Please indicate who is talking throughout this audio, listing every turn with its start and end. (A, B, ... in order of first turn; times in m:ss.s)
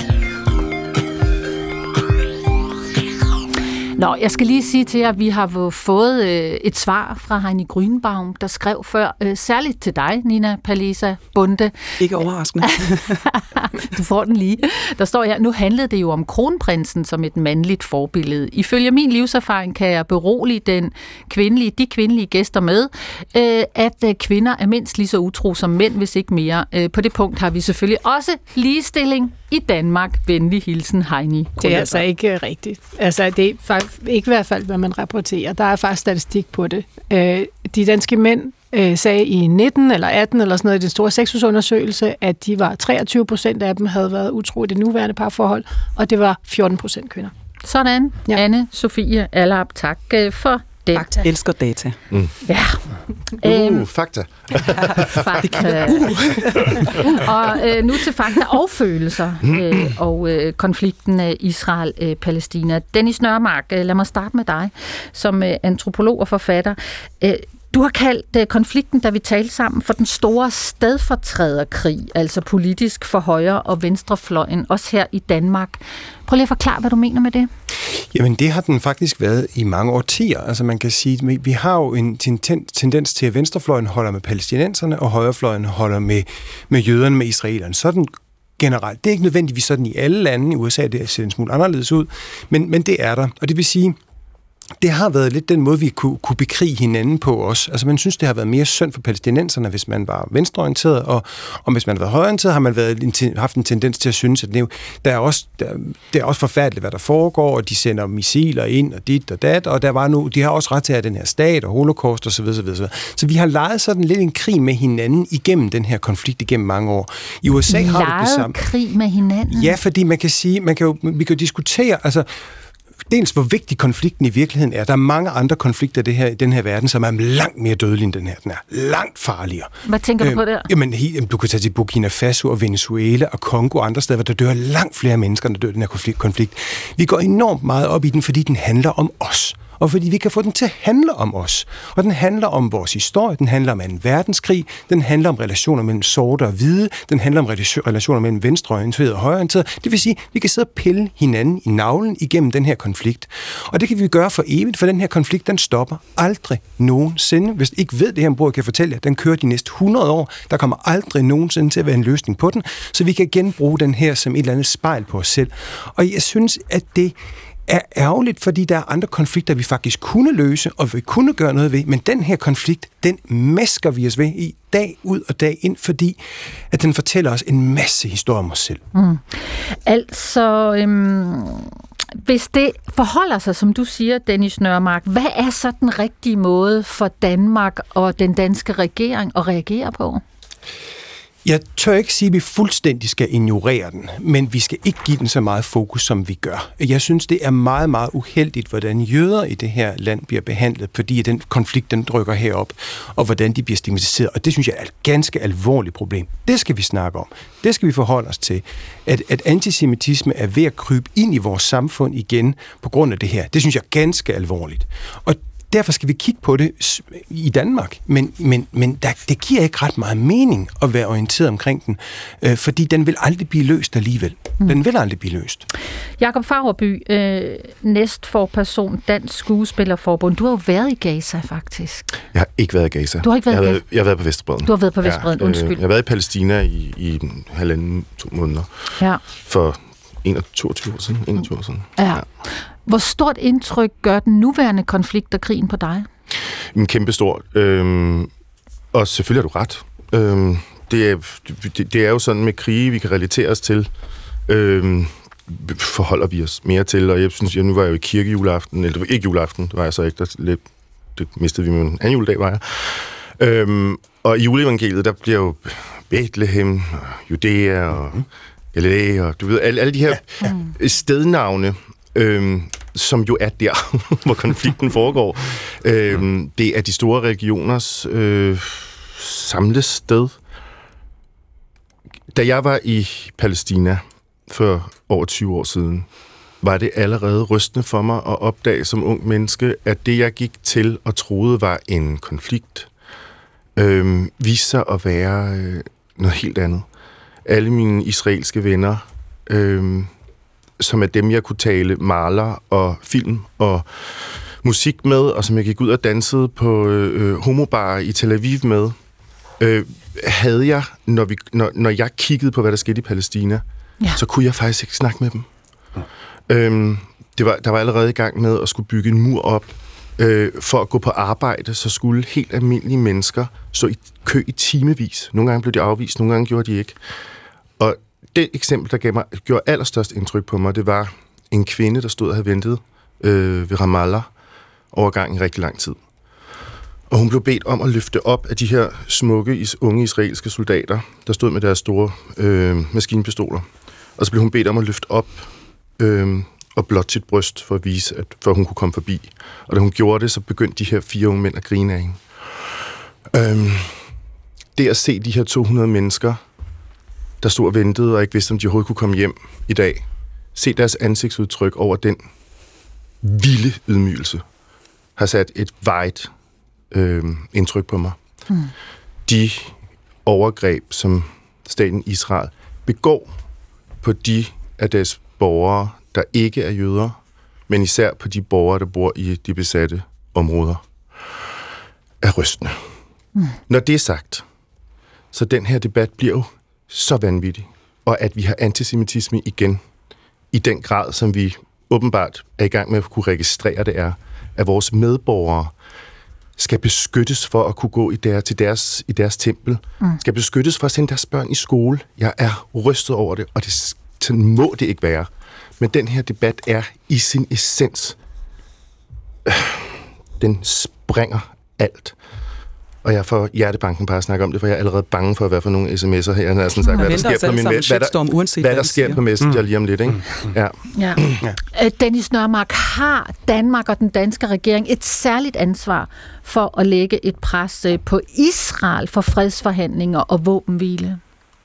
0:04.0-0:11.8 A
0:12.0-0:13.2 B
0:13.3-0:32.0 A
0:31.6-0:47.3 C
0:47.6-0:51.2 A
0:51.0-0:52.0 B
0:52.4-0:52.8 A
0:53.4-0:55.7 D
0:53.4-0:53.8 A
0:55.2-0:56.0 A
0:55.4-0:57.2 B
0:56.6-0:57.2 D
0:57.0-1:17.5 A
1:17.9-1:34.0 E
1:34.8-1:58.6 E
1:57.7-1:59.8 A
1:59.5-2:02.3 E
2:03.1-2:47.2 E
2:09.9-2:10.7 A
2:47.7-2:56.2 E
2:56.7-2:58.8 E
2:58.9-3:10.2 A
3:11.4-3:45.6 E
3:46.2-3:52.1 A
3:52.3-3:58.7 D
3:53.2-3:53.8 A
3:54.6-3:55.8 A
3:59.4-4:02.1 D
4:02.0-4:06.1 A
4:06.7-4:08.3 D
4:08.9-4:13.9 D
4:14.5-4:20.6 D
4:21.2-4:40.4 D
4:42.3-4:46.1 D
4:46.6-4:52.9 D
4:53.8-4:56.9 D
4:57.5-5:00.1 D
5:00.8-5:09.0 D
5:09.6-5:13.6 D
5:14.2-5:15.5 D
5:16.5-5:27.0 D
5:27.8-5:34.3 D
5:34.9-5:36.0 D
5:37.1-5:45.5 D
5:46.0-5:52.2 D
5:53.3-5:54.0 D
5:54.8-5:56.4 D
5:57.4-6:02.2 D
6:03.2-6:04.4 D
6:05.2-6:06.3 D
6:06.9-6:08.2 D
6:09.3-6:13.3 D
6:14.0-6:17.2 D
6:17.7-6:20.8 D
6:22.2-6:22.8 D
6:23.7-6:24.4 D
6:25.3-6:29.8 D
6:30.5-6:35.7 D
6:36.6-6:45.3 D
6:45.8-6:48.2 D
6:49.5-6:52.2 D
6:53.0-7:01.4 D
6:56.9-6:59.2 B
7:01.0-7:11.2 A